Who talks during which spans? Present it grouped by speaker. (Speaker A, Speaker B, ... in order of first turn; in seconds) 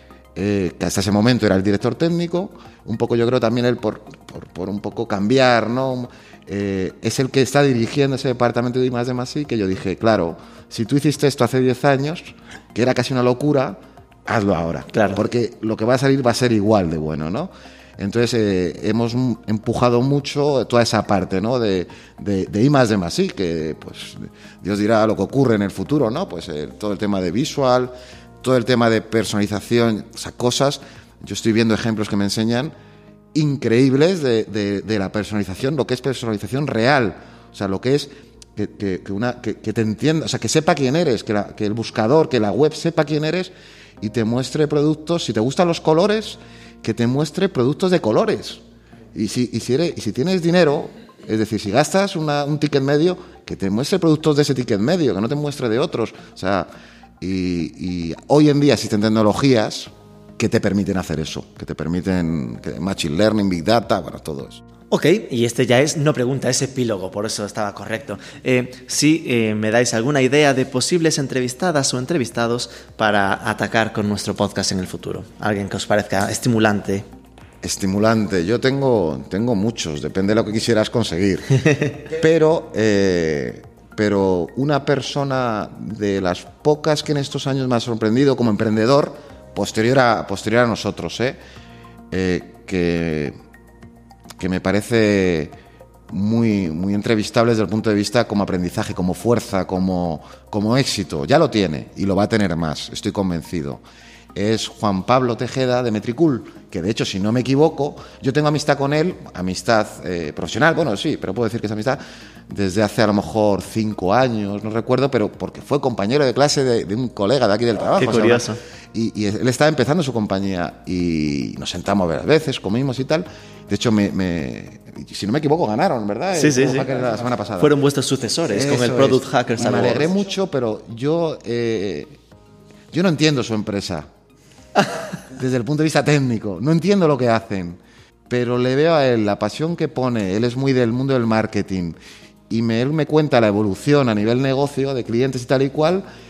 Speaker A: 0.3-32.7, 33.3-48.6, 49.1-56.7, 57.2-64.6, 77.6-91.4, 92.1-93.3, 94.4-95.5, 96.1-103.8, 104.3-127.7, 128.5-132.2, 132.9-134.1, 135.3-142.0, 142.5-146.0
Speaker B: 14.9-15.2, 64.9-77.0, 117.9-118.6, 126.3-126.9, 127.6-130.1